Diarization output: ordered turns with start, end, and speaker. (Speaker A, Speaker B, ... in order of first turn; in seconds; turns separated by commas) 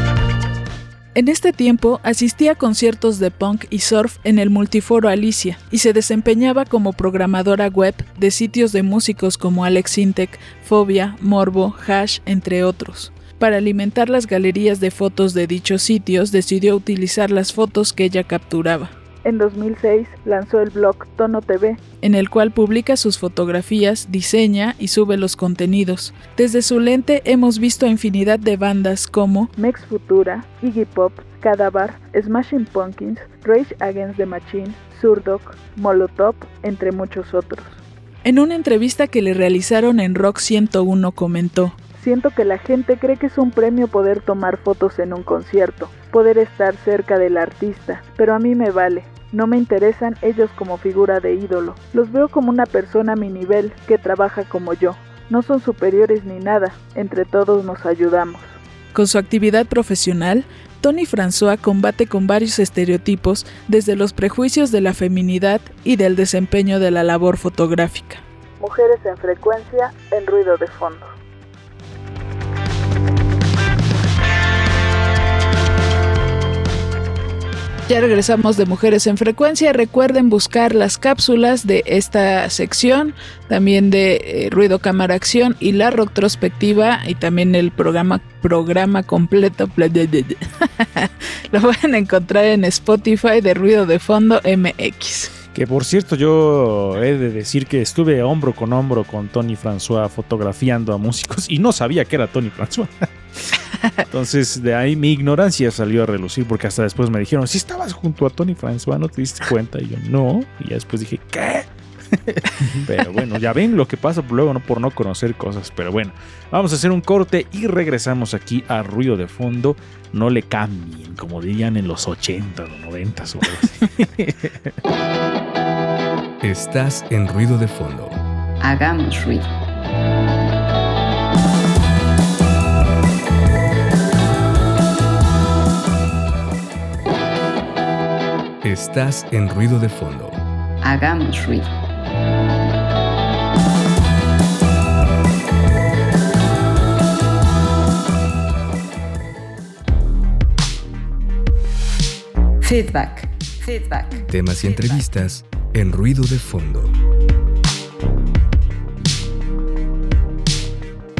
Speaker A: 1.1-71.1, Speaker A: 77.9-95.3, Speaker B: 95.5-103.1, Speaker B: 104.1-124.7, Speaker C: 126.4-128.2, Speaker D: 128.6-129.5, Speaker C: 138.6-140.4, Speaker D: 140.8-141.7, Speaker D: 152.6-155.0, Speaker C: 154.3-156.9